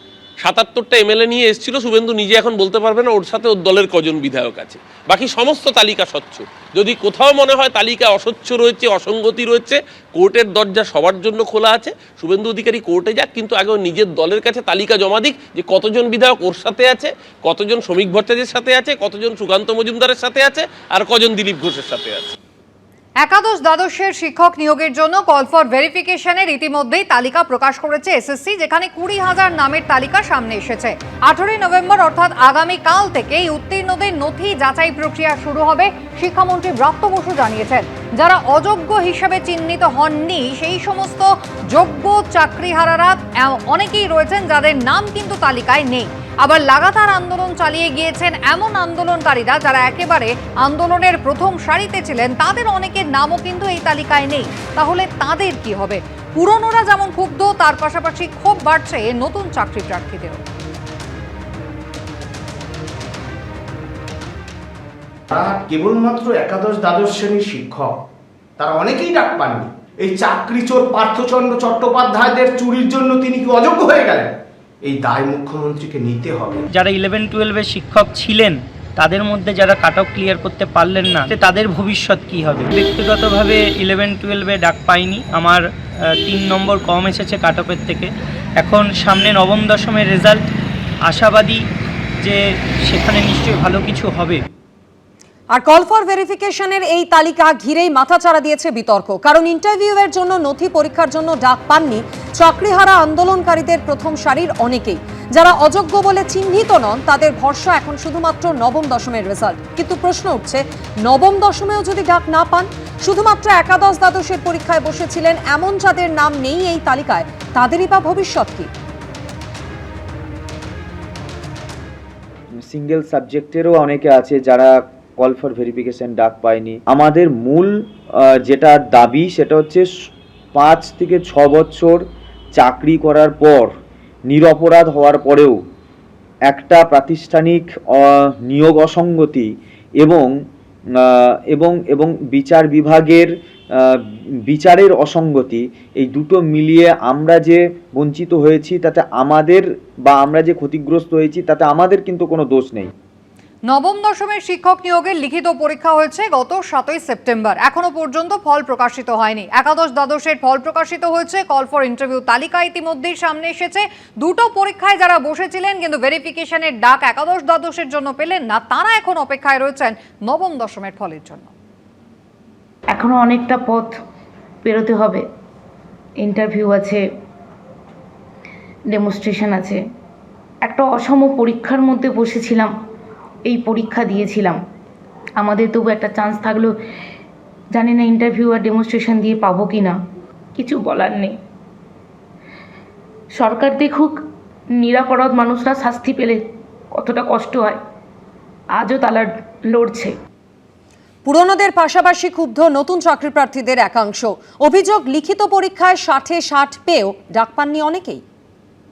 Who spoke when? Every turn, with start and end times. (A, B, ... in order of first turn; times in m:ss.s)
0:00.4-0:22.4 A
0:23.2-1:00.4 B
1:05.3-1:07.9 C
1:08.6-1:14.3 C
1:14.9-1:16.6 C
1:16.7-1:25.6 D
1:26.2-1:28.1 D
1:28.6-1:30.4 D
1:31.1-1:31.6 D
1:32.9-1:34.4 D
1:35.5-1:58.7 E
2:02.6-2:07.7 F
2:08.4-2:09.9 F
2:10.6-2:12.0 F
2:12.6-2:13.7 F
2:14.3-2:15.6 F
2:16.5-2:20.3 F
2:21.0-2:24.0 F
2:24.5-2:32.9 F
2:33.7-2:51.5 B
2:52.9-2:54.0 G
2:54.6-2:55.2 G
2:56.2-2:57.0 G
2:58.9-2:59.8 G
3:00.6-3:02.7 G
3:03.5-3:04.6 G
3:05.4-3:06.7 G
3:07.7-3:10.0 G
3:10.6-3:11.3 G
3:13.4-3:14.2 G
3:14.8-3:16.4 G
3:16.9-3:17.8 G
3:18.8-3:20.1 G
3:21.3-3:28.2 E